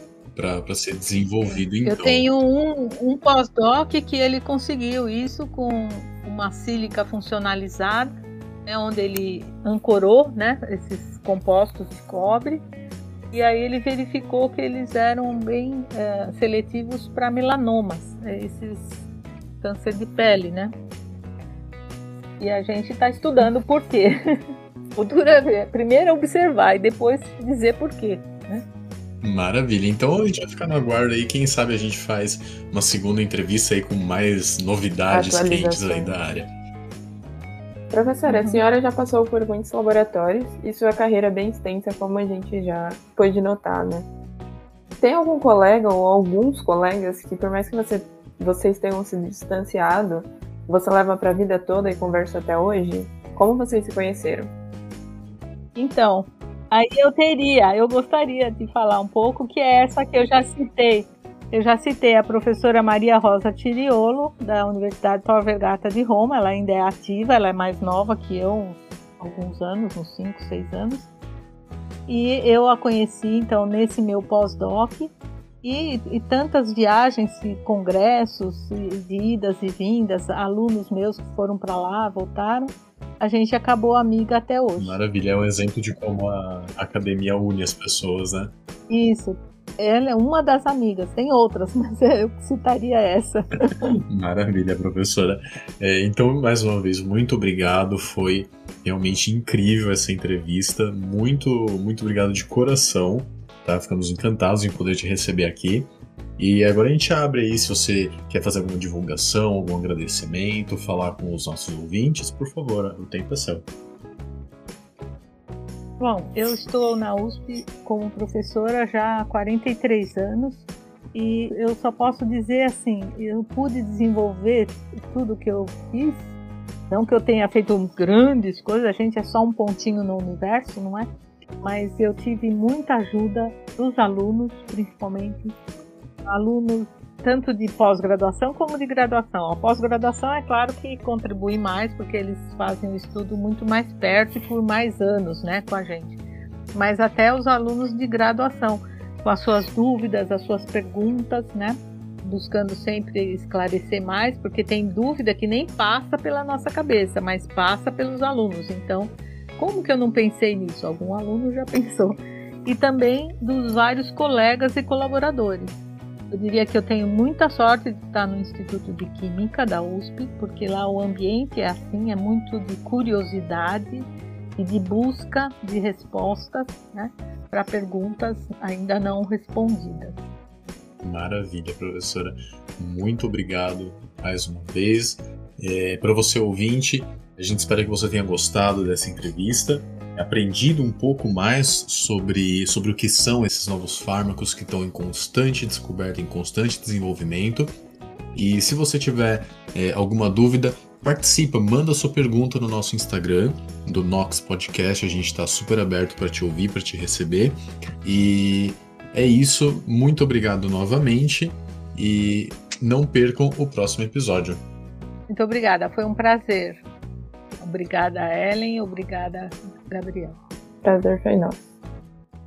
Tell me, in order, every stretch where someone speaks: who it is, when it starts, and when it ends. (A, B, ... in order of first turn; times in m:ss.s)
0:00.3-0:02.3 A
0:01.4-0:12.6 B
0:13.3-0:19.0 B
0:19.6-0:20.7 B
0:22.4-0:24.4 B
0:25.0-0:28.6 B
0:29.2-0:36.5 A
0:35.1-0:36.2 C
0:37.9-0:44.1 C
0:38.3-0:38.6 B
0:45.0-0:54.5 C
0:55.8-1:11.1 B
1:12.1-1:25.0 B
1:24.8-1:28.5 A
1:28.9-1:33.9 B
1:34.1-1:53.7 A
1:56.0-2:06.3 B
2:06.9-2:11.1 B
2:11.6-2:15.5 B
2:16.2-2:26.2 B
2:26.7-2:45.8 B
2:46.3-3:00.2 B
3:01.0-3:17.7 A
3:18.3-3:34.6 A
3:35.3-3:36.8 B
3:37.6-3:40.4 B
3:40.8-3:41.6 C